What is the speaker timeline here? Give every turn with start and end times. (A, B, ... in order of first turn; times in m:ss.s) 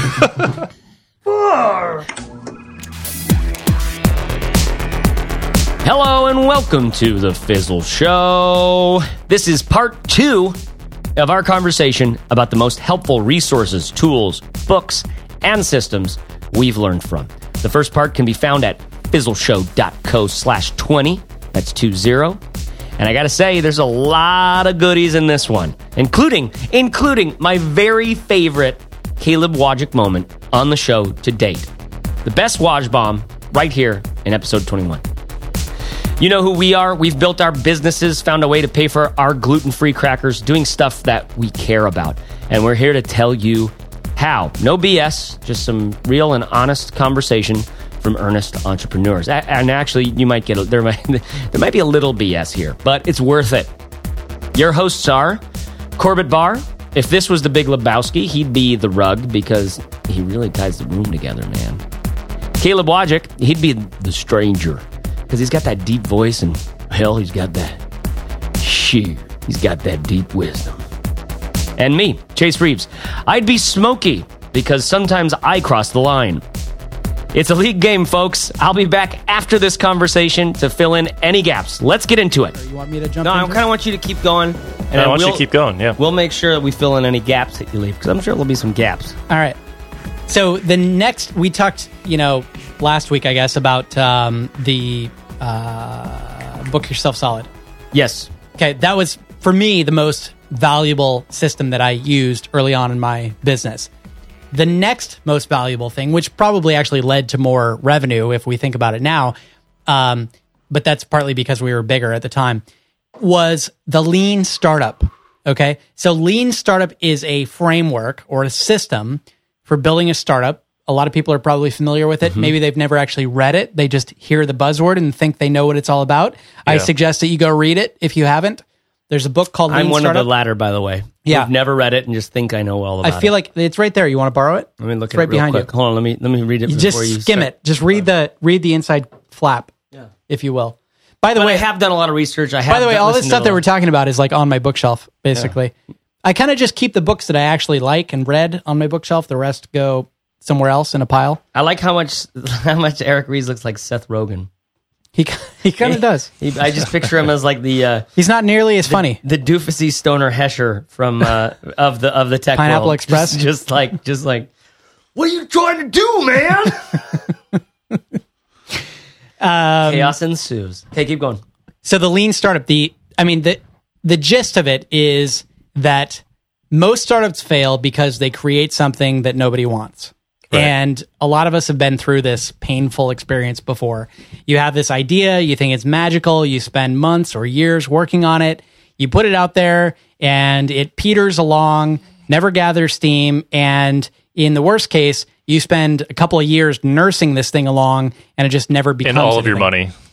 0:01.5-0:01.7 A
0:05.8-0:10.6 A
0:11.2-0:22.4 A
0:23.0-0:31.7 A
0:32.2-0:35.0 A
0:36.2-0:53.7 A
0:54.6-0:55.4 A
0:56.0-1:01.8 A
1:02.6-1:07.8 A
1:08.6-1:10.8 A
1:11.8-1:16.4 A
1:17.3-1:22.6 A
1:22.5-1:23.6 B
1:23.2-1:25.4 A
1:24.9-1:26.0 C
1:26.0-1:29.2 A
1:29.3-1:29.6 B
1:30.3-1:37.5 B
1:37.9-1:38.3 A
1:38.6-1:43.9 B
1:44.5-1:49.4 B
1:49.9-1:52.6 B
1:53.2-2:10.3 B
2:09.7-2:13.3 A
2:11.2-2:11.5 B
2:13.0-2:15.7 B
2:14.8-2:17.5 A
2:16.7-2:19.7 B
2:20.3-2:21.7 B
2:21.4-2:23.6 A
2:22.7-2:31.4 B
2:31.6-2:34.5 A
2:35.2-2:36.3 B
2:35.8-2:38.1 A
2:38.2-2:39.2 B
2:38.9-2:44.5 A
2:42.6-2:43.4 B
2:45.2-2:47.2 A
2:49.4-2:50.2 B
2:49.8-2:51.4 A
2:51.8-3:19.7 B
3:19.0-3:19.9 C